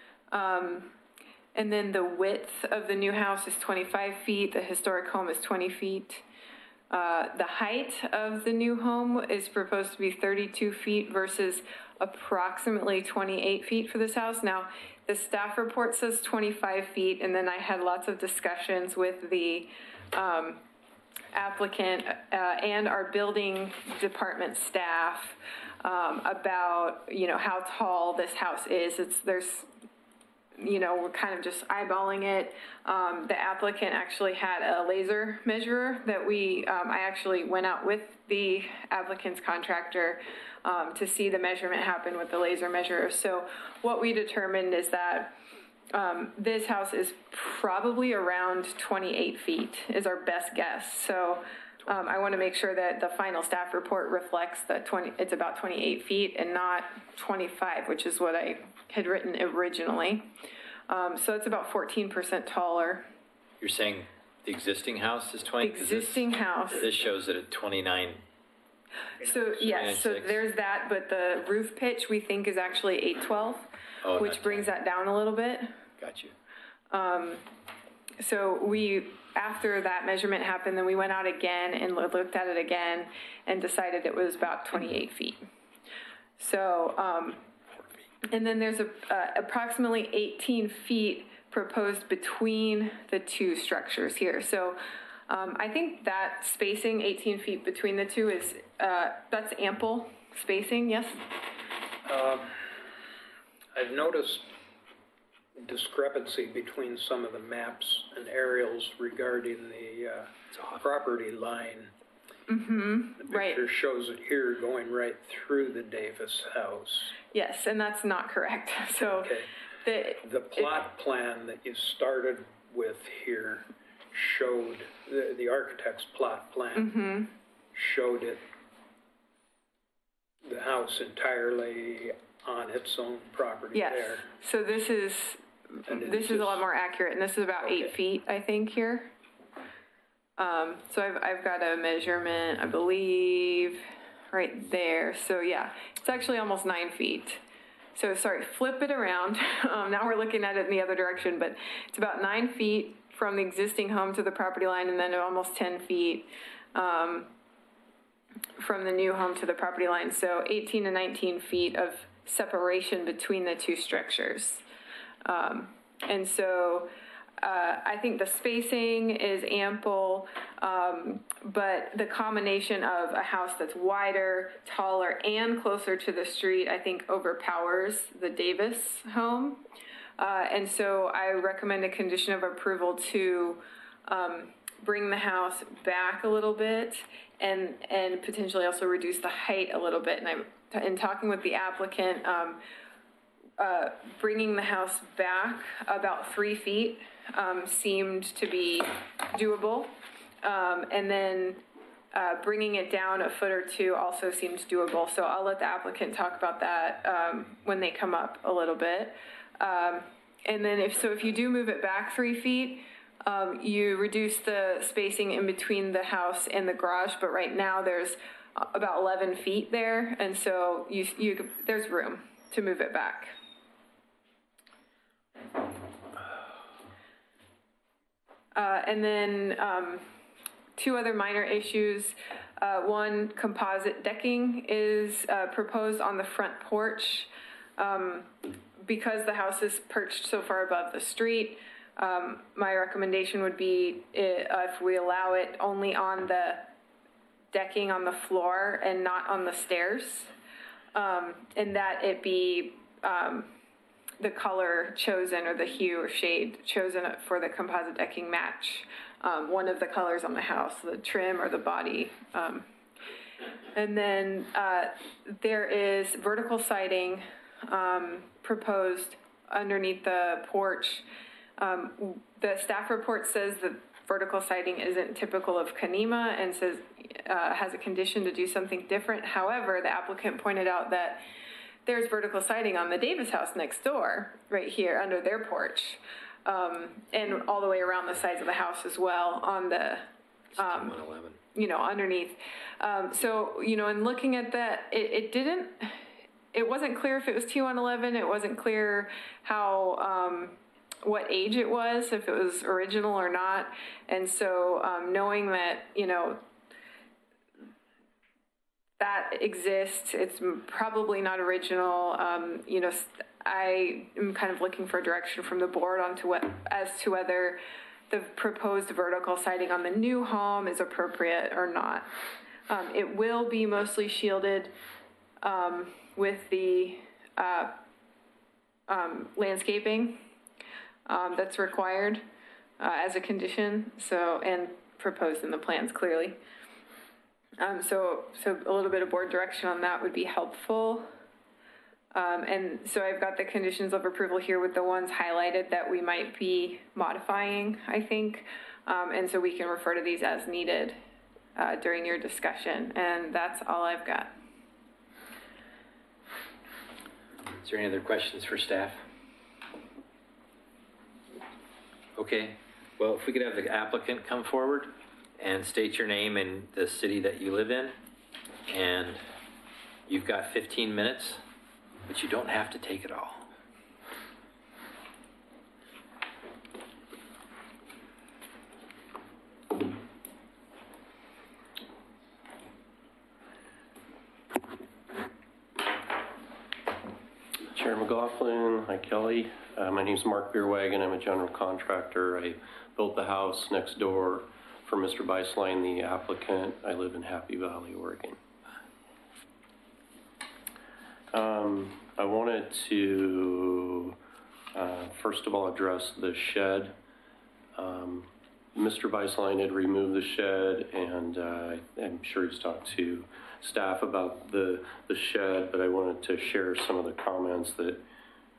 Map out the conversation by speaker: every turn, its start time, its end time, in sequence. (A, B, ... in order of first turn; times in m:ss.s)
0:00.3-0:00.9 A
0:01.5-0:06.2 A
0:06.9-0:20.6 A
0:21.3-0:29.7 A
0:30.6-0:45.4 A
0:45.9-1:00.3 A
1:00.9-1:03.0 A
1:03.6-1:08.2 B
1:05.6-1:06.9 A
1:09.2-1:10.4 B
1:09.2-1:15.7 A
1:14.0-1:14.7 B
1:16.0-1:16.3 B
1:16.9-1:17.4 A
1:18.2-1:25.4 A
1:26.4-1:27.4 A
1:28.3-1:41.2 A
1:42.0-1:42.8 C
1:43.7-1:44.5 C
1:45.6-1:51.9 C
1:50.5-1:50.8 B
1:52.5-1:53.6 A
1:53.2-1:57.2 C
1:57.3-1:59.3 A
1:59.0-1:59.5 C
1:59.8-2:00.6 A
2:00.2-2:07.0 C
2:06.7-2:07.3 A
2:07.7-2:08.4 C
2:10.4-2:14.3 C
2:13.7-2:19.1 A
2:15.9-2:16.6 C
2:17.6-2:17.9 C
2:20.4-2:27.4 A
2:27.9-2:37.3 A
2:38.6-2:44.6 A
2:45.2-2:59.6 A
3:00.2-3:12.6 A
3:13.6-3:43.4 A
3:48.5-3:50.0 A
3:50.8-4:06.7 A
4:07.5-4:10.3 A
4:10.9-4:13.5 A
4:14.2-4:22.7 A
4:23.7-4:31.0 A
4:31.6-4:41.2 A
4:41.8-4:51.0 A
4:50.6-4:51.4 B
4:51.5-4:56.0 A
4:56.5-5:06.4 A
5:09.0-5:22.1 A
5:22.7-5:24.7 A
5:25.4-5:27.8 A
5:28.9-5:30.2 A
5:31.0-5:32.2 A
5:32.8-5:36.4 A
5:37.6-5:41.1 A
5:42.1-5:51.0 A
5:51.6-5:54.3 A
5:57.6-5:59.0 B
6:02.2-6:08.0 B
6:08.7-6:09.2 B
6:10.1-6:11.4 B
6:12.0-6:13.5 B
6:27.7-6:38.4 D
6:41.3-6:44.1 D
6:44.7-6:47.0 D
6:47.7-6:58.0 D